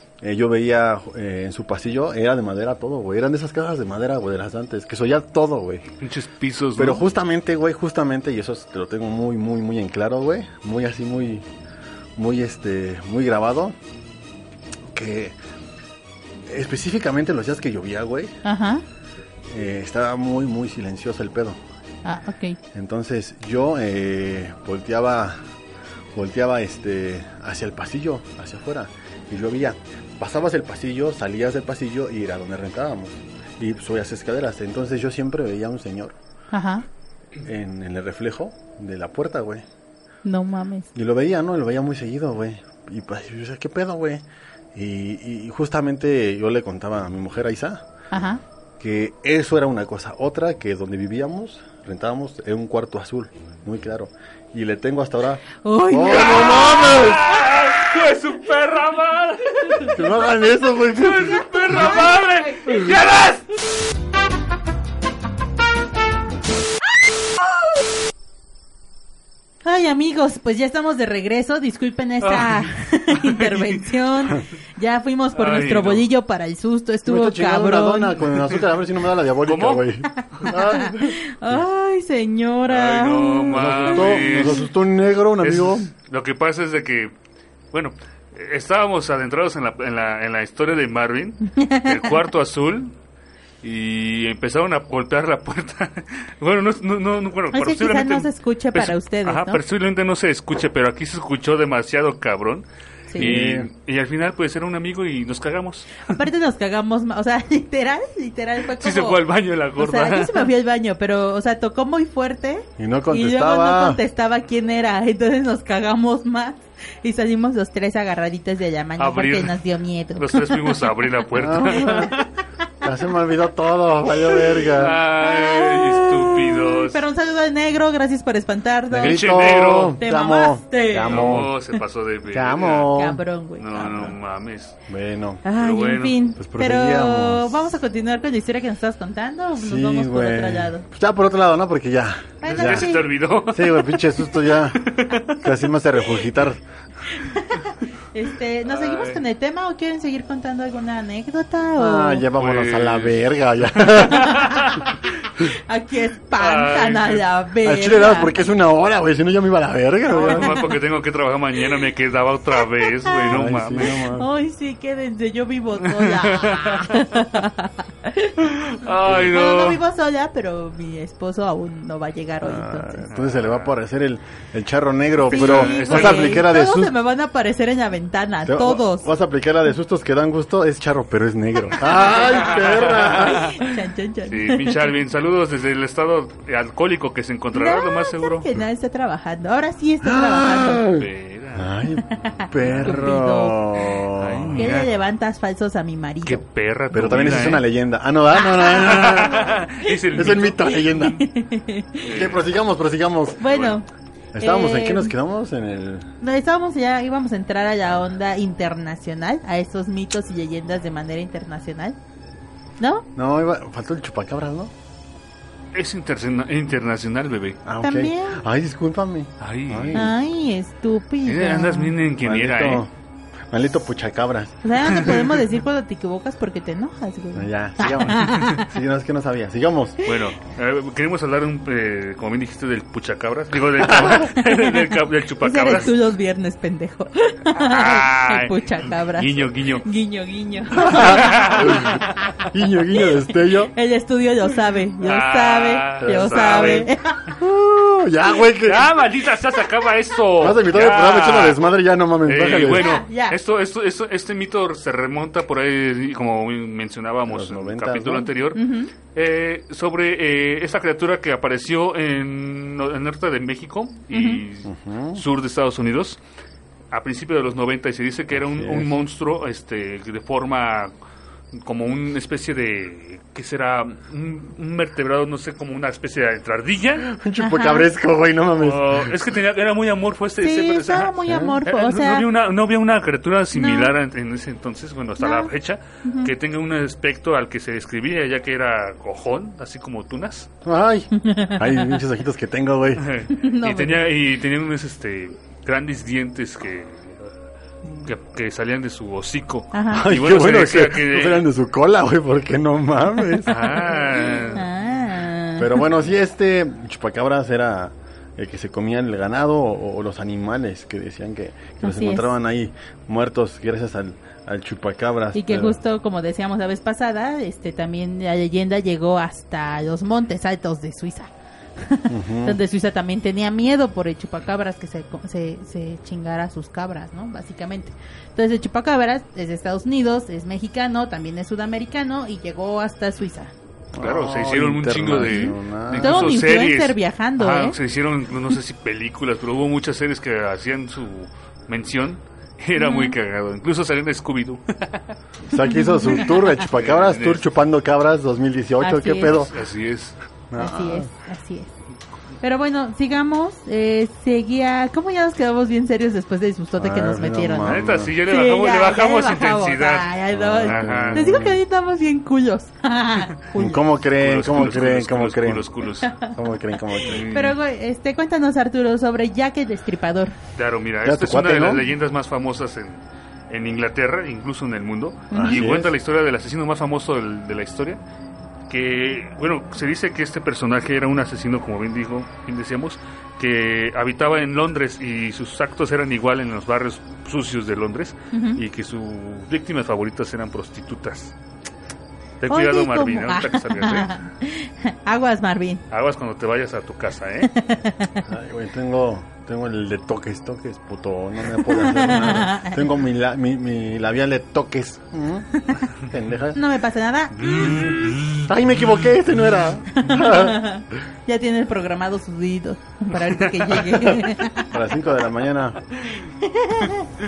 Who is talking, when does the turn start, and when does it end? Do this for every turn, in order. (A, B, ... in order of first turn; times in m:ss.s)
0:00.2-0:05.9 A
0:06.0-0:07.0 B
0:06.8-0:11.5 A
0:12.2-0:13.8 A
0:14.9-0:15.4 A
0:16.5-0:18.4 A
0:18.4-0:18.8 C
0:19.5-0:21.6 A
0:22.0-0:22.6 C
0:22.7-0:25.4 A
0:26.1-0:36.2 A
0:36.5-0:36.8 C
0:37.4-0:39.6 A
0:40.2-0:40.9 C
0:40.9-0:44.2 A
0:44.7-0:47.8 A
0:48.1-0:48.4 C
0:48.8-0:57.3 A
0:55.6-0:57.0 C
0:56.0-1:00.0 B
0:59.9-1:02.0 A
1:00.8-1:03.5 B
1:09.6-1:18.3 C
1:12.2-1:13.9 B
1:15.4-1:16.1 B
1:17.1-1:21.6 A
1:19.5-1:19.9 B
1:20.1-1:24.6 C
1:22.7-1:24.7 B
1:23.5-1:25.9 A
1:25.4-1:27.1 B
1:27.7-1:32.9 B
1:31.5-1:32.1 C
1:33.6-1:46.1 B
1:37.5-1:39.6 C
1:43.1-1:43.4 C
1:43.2-1:43.7 A
1:46.1-1:49.2 C
1:48.8-1:50.5 B
1:49.8-2:00.8 C
1:52.8-1:54.0 A
1:59.0-1:59.6 B
2:00.2-2:02.3 B
2:01.4-2:02.1 A
2:01.6-2:02.1 C
2:02.8-2:05.0 A
2:04.7-2:07.0 B
2:05.2-2:09.2 C
2:08.9-2:11.5 A
2:09.0-2:10.0 B
2:10.0-2:11.5 C
2:11.0-2:12.9 B
2:12.3-2:13.2 A
2:12.9-2:14.2 C
2:13.6-2:14.8 B
2:14.9-2:15.4 A
2:15.4-2:20.8 C
2:15.6-2:16.2 B
2:16.4-2:17.7 A
2:19.6-2:23.0 A
2:22.4-2:23.1 C
2:22.4-2:25.4 B
2:23.5-2:24.8 A
2:25.3-2:26.6 A
2:27.1-2:32.3 C
2:28.6-2:29.2 B
2:31.8-2:34.8 A
2:32.3-2:35.0 B
2:34.1-2:34.7 C
2:35.4-2:38.3 C
2:36.4-2:37.2 B
2:37.6-2:40.6 A
2:40.1-2:44.0 B
2:40.2-2:40.7 C
2:42.6-2:53.1 C
2:43.3-2:44.3 A
2:45.8-2:47.1 B
2:48.4-2:49.8 B
2:52.4-2:56.9 A
2:53.1-2:53.7 B
2:55.3-2:56.5 B
2:55.3-2:59.1 C
2:58.4-3:03.6 A
3:01.8-3:04.9 C
3:02.0-3:03.4 B
3:04.3-3:08.5 B
3:07.5-3:10.9 C
3:10.0-3:14.7 A
3:10.8-3:11.7 B
3:12.0-3:13.9 C
3:12.6-3:13.0 B
3:14.2-3:14.9 B
3:14.6-3:16.4 C
3:16.3-3:17.6 B
3:16.9-3:19.6 A
3:18.4-3:19.9 C
3:18.7-3:21.0 B
3:20.1-3:21.2 A
3:20.9-3:22.2 C
3:22.0-3:22.5 B
3:22.1-3:23.7 A
3:23.4-3:23.9 C
3:24.3-3:26.1 A
3:24.4-3:25.2 C
3:26.2-3:32.0 C
3:32.8-3:33.1 C
3:33.2-3:34.7 A
3:35.7-3:37.6 B
3:37.6-3:40.1 A
3:37.8-3:38.4 C
3:39.4-3:40.1 B
3:39.9-3:42.0 C
3:41.3-3:42.8 B
3:42.2-3:42.9 A
3:43.5-3:44.6 A
3:44.6-3:48.7 C
3:44.9-3:45.2 B
3:47.3-3:50.0 A
3:50.0-3:56.0 B
3:53.8-3:54.3 A
3:54.4-4:02.1 C
3:57.6-3:59.8 B
4:00.7-4:03.7 A
4:01.0-4:02.0 B
4:03.7-4:07.4 C
4:05.0-4:06.9 B
4:06.0-4:09.0 A
4:08.6-4:11.6 B
4:10.4-4:12.9 A
4:12.2-4:26.2 B
4:12.7-4:13.4 C
4:17.3-4:18.3 A
4:18.5-4:18.9 C
4:24.1-4:24.4 C
4:24.6-4:25.2 A
4:26.9-4:30.9 B
4:28.4-4:29.0 A
4:31.5-4:37.1 B
4:37.0-4:39.2 A
4:37.4-4:37.9 C
4:38.6-4:50.5 B
4:40.4-4:42.3 C
4:41.2-4:41.6 A
4:43.5-4:43.9 C
4:45.2-4:45.5 C
4:46.0-4:46.3 C
4:50.6-4:53.1 A
4:51.1-4:52.0 C
4:53.0-4:57.3 B
4:53.3-4:54.0 C
4:58.0-5:01.5 B
4:59.7-5:00.1 C
4:59.9-5:03.9 A
5:03.3-5:05.8 C
5:03.5-5:04.7 B
5:05.6-5:15.8 A
5:11.8-5:12.3 C
5:15.3-5:33.5 C
5:22.1-5:22.6 A
5:33.9-5:36.4 A
5:34.0-5:45.2 B
5:35.3-5:37.8 C
5:42.8-5:43.2 C
5:45.5-5:49.5 A
5:45.5-5:46.6 C
5:46.3-5:47.4 B
5:48.8-5:49.5 C
5:49.3-5:50.2 B
5:50.5-5:51.1 A
5:50.6-5:51.7 C
5:52.4-6:03.8 C
5:56.8-5:58.1 A
5:57.6-6:00.1 B
6:00.3-6:01.6 A
6:00.6-6:01.3 B
6:03.6-6:05.7 A
6:04.1-6:06.2 B
6:06.0-6:06.4 C
6:06.3-6:07.3 A
6:07.0-6:07.6 B
6:07.3-6:10.4 C
6:10.6-6:18.0 B
6:11.0-6:11.9 A
6:15.3-6:15.7 C
6:15.3-6:16.0 A
6:18.7-6:31.3 B
6:28.3-6:28.6 C
6:32.4-6:34.1 B
6:32.5-6:35.8 C
6:35.9-6:37.5 B
6:37.4-6:38.2 C
6:38.3-6:46.6 A
6:41.5-6:42.9 C
6:45.6-6:45.9 C
6:46.5-6:48.1 C
6:47.4-6:48.5 B
6:47.5-6:50.7 A
6:49.9-6:54.7 C
6:53.2-6:54.2 B
6:54.7-6:55.8 A
6:56.4-6:57.1 C